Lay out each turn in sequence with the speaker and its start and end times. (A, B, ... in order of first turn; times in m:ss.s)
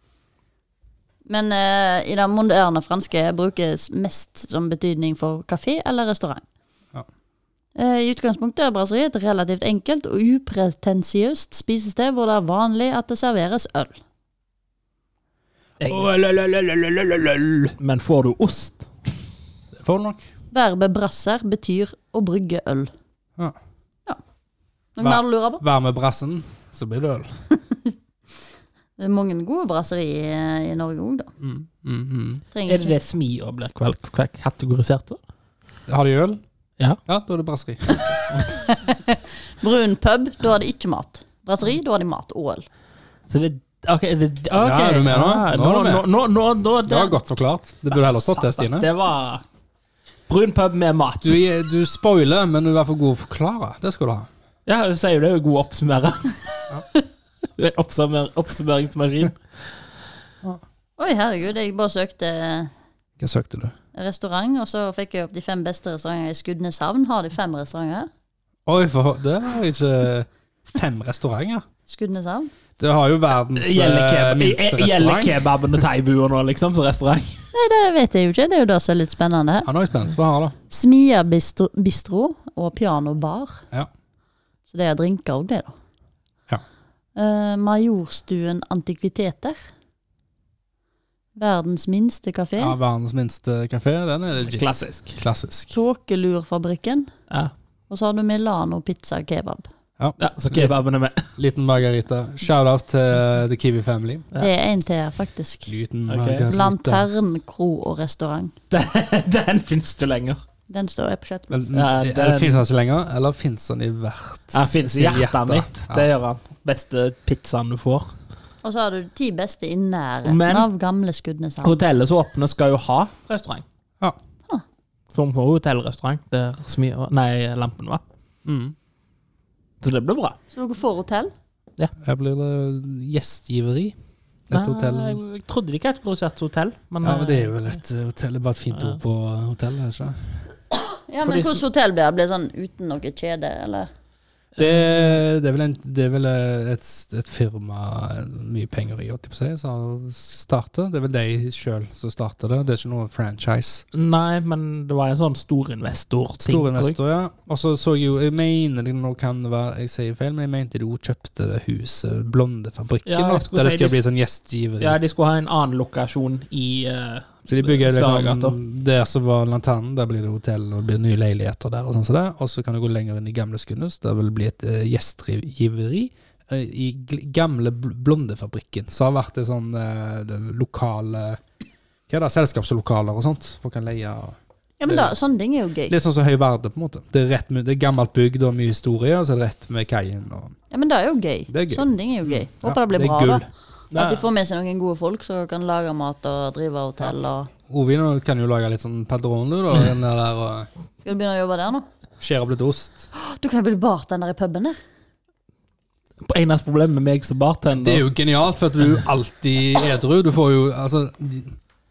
0:01.3-0:06.4 A
0:07.8-0:14.0 A
0:15.8-0:17.8 B
0:15.8-0:16.3 C
0:17.8-0:18.9 C
0:19.8-0:20.3 B
0:20.5-0:22.9 A
0:25.0-0:25.6 A
0:25.0-0:27.4 B
0:29.0-0:31.3 A
0:31.4-0:32.4 B
0:32.5-0:32.9 A
0:32.7-0:35.2 C
0:35.9-0:36.4 B
0:37.1-0:38.5 B
0:38.5-0:42.7 A
0:43.3-0:47.2 C
0:44.5-0:46.1 B
0:46.9-0:48.9 B
0:47.9-0:49.4 C
0:50.3-0:51.4 C
0:51.2-0:54.3 B
0:54.7-0:56.7 C
0:57.6-0:59.4 C
1:01.0-1:02.7 A
1:03.2-1:03.7 B
1:03.9-1:08.1 A
1:08.7-1:11.6 B
1:11.9-1:12.5 A
1:12.8-1:15.4 B
1:13.6-1:17.5 C
1:17.5-1:19.7 A
1:19.6-1:20.6 B
1:20.7-1:23.6 A
1:24.7-1:25.7 A
1:27.2-1:29.6 A
1:31.4-1:32.8 A
1:32.6-1:35.8 B
1:34.5-1:35.2 C
1:35.7-1:37.1 A
1:37.9-1:39.7 A
1:40.0-1:40.8 B
1:40.2-1:41.3 C
1:41.4-1:44.3 B
1:44.4-1:45.7 A
1:45.7-1:47.1 B
1:46.1-1:46.5 C
1:46.5-1:48.6 A
1:48.7-1:50.4 C
1:50.7-1:51.7 A
1:51.5-1:56.1 B
1:51.7-1:52.6 C
1:54.5-1:58.1 C
1:58.6-2:01.8 A
2:00.2-2:00.7 C
2:01.6-2:03.6 C
2:05.1-2:08.0 C
2:08.4-2:08.8 B
2:09.8-2:10.4 C
2:10.5-2:11.3 A
2:12.0-2:14.0 B
2:14.5-2:15.2 B
2:14.5-2:17.6 C
2:17.0-2:20.4 B
2:20.7-2:23.9 A
2:21.2-2:21.6 C
2:24.6-2:33.8 B
2:24.6-2:25.1 C
2:33.9-2:37.0 C
2:36.4-2:45.0 B
2:43.1-2:44.0 C
2:44.8-2:48.6 C
2:47.5-3:01.4 B
3:02.1-3:05.2 B
3:04.8-3:05.9 A
3:05.9-3:10.6 B
3:10.7-3:17.5 A
3:11.5-3:13.5 B
3:13.9-3:14.2 C
3:17.7-3:20.7 B
3:21.0-3:21.9 A
3:22.2-3:23.1 B
3:23.1-3:24.8 A
3:26.2-3:28.0 C
3:27.7-3:31.6 B